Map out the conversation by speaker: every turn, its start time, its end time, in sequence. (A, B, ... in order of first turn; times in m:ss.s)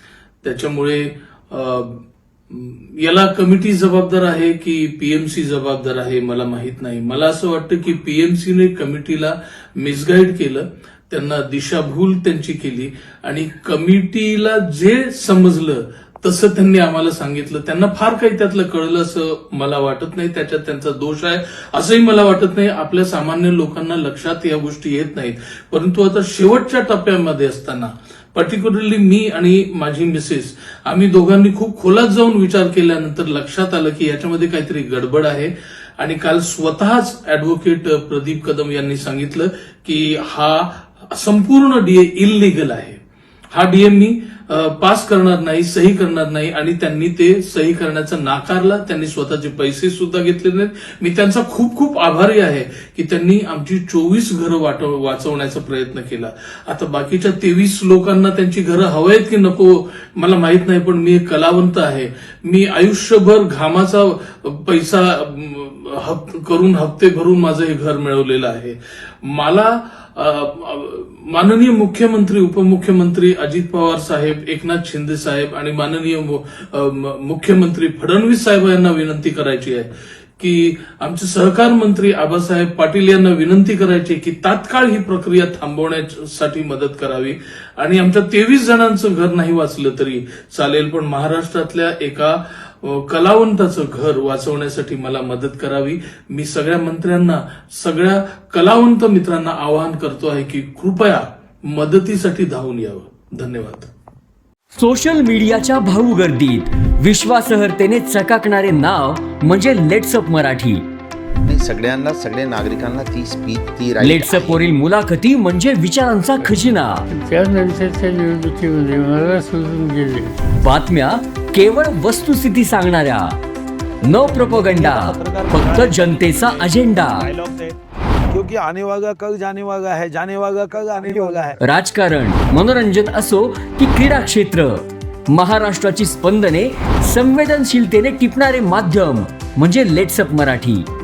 0:00.4-0:43.0 A
0:43.5-1:43.9 A
1:44.7-1:50.8 B
1:51.4-1:54.6 C
1:54.0-1:57.0 B
1:57.1-2:00.3 D
2:00.6-2:03.4 B
2:04.0-2:07.3 B
2:04.2-2:07.8 E
2:08.3-2:11.6 E
2:11.6-2:20.9 B